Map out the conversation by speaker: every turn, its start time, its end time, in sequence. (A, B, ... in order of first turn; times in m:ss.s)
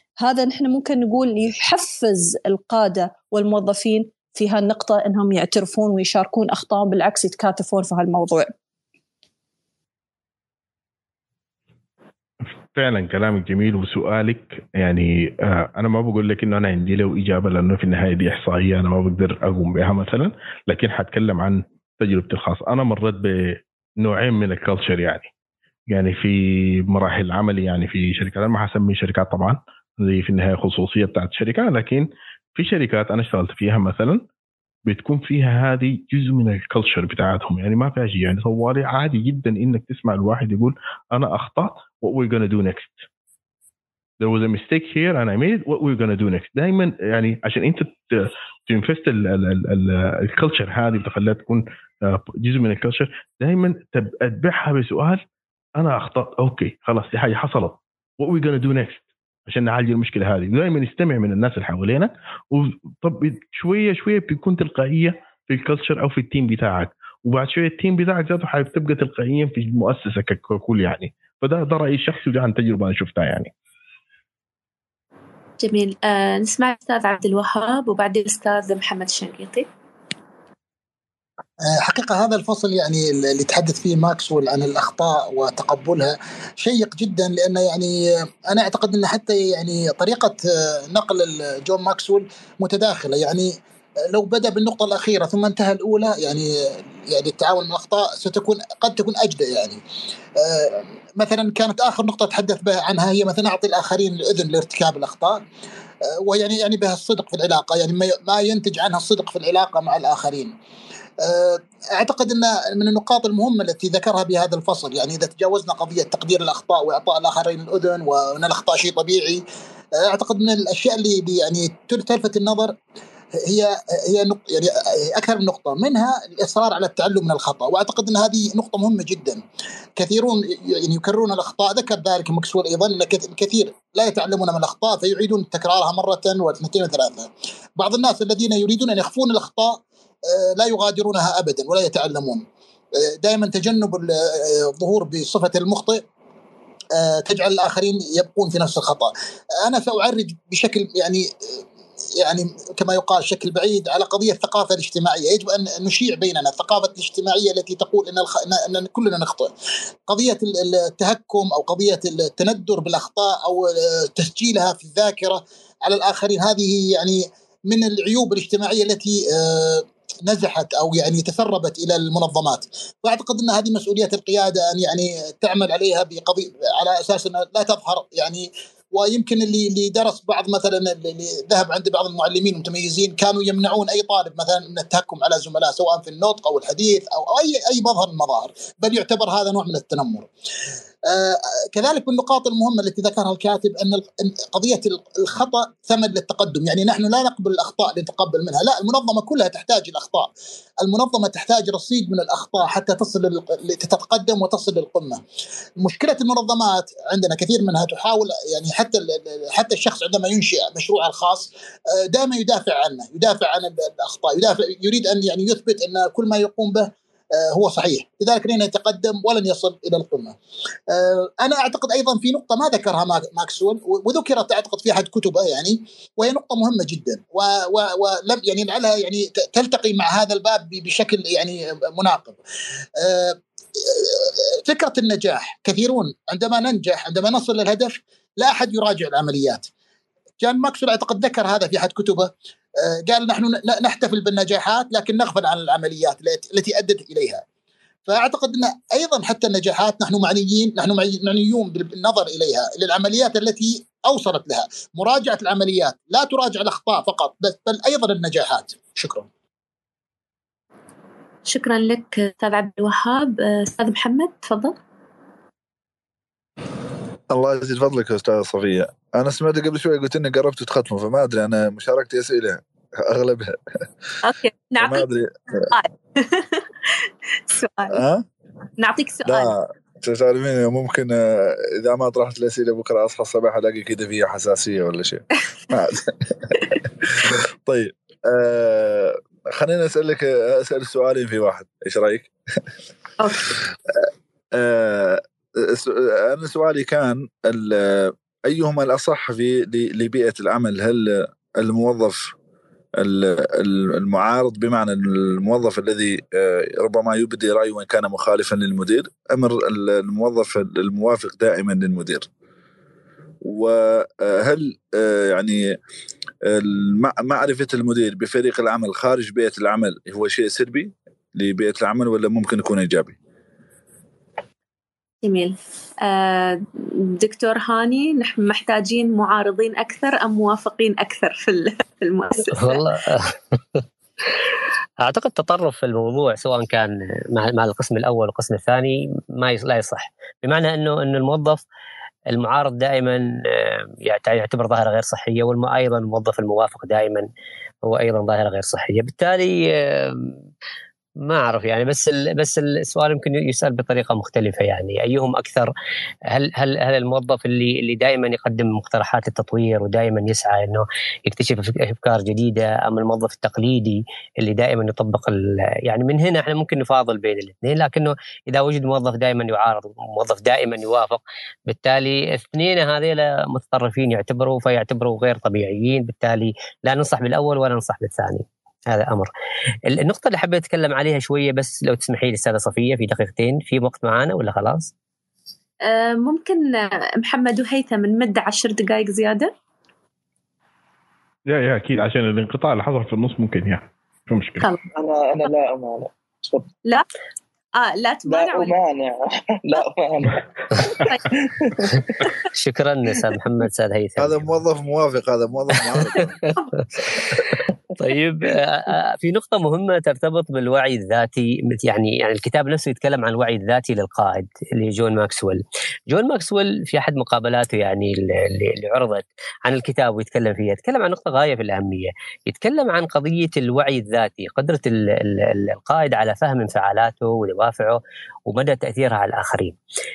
0:00.2-0:08.5 A
0:12.7-0:25.3 B
0:25.9-0:34.2 B
0:34.9-0:43.0 B
0:44.2-0:55.2 B
0:55.8-1:13.5 B
1:15.6-1:19.6 C
1:21.6-1:28.0 D
1:28.5-1:33.6 D
1:34.1-1:39.8 D
1:40.4-1:45.4 D
1:46.1-1:50.5 D
1:51.2-1:59.4 D
2:00.0-2:02.8 D
2:03.4-2:09.4 D
2:10.0-2:22.4 D
2:23.2-2:26.0 D
2:26.9-2:29.1 D
2:29.6-2:31.3 D
2:32.2-2:39.5 D
2:40.1-3:10.3 D
3:11.1-3:25.2 D
3:25.8-3:40.4 D
3:40.9-3:52.4 D
3:53.0-3:59.7 D
4:00.4-4:07.4 D
4:08.1-4:19.3 D
4:21.5-4:24.8 C
4:27.3-4:33.6 E
4:34.2-4:35.1 C
4:34.8-4:35.6 E
4:35.7-4:38.0 C
4:37.9-4:38.2 E
4:38.8-4:39.5 C
4:39.3-4:52.3 E
4:53.2-4:53.5 C
4:54.5-5:02.3 E
5:03.0-5:12.3 E
5:13.4-5:15.8 E
5:16.4-5:23.2 E
5:25.2-5:26.6 C
5:27.2-5:32.8 C
5:32.5-5:33.8 F
5:35.0-5:41.6 F
5:42.3-5:47.3 F
5:47.8-5:50.3 F
5:51.2-5:55.7 F
5:56.3-6:19.3 F
6:19.9-6:24.9 F
6:25.8-6:29.5 C
6:31.5-6:34.7 B
6:34.9-6:36.7 G
6:37.8-6:38.7 C
6:38.3-6:42.2 G
6:40.9-6:41.3 C
6:42.5-6:44.5 F
6:44.2-6:46.3 E
6:47.0-7:09.8 F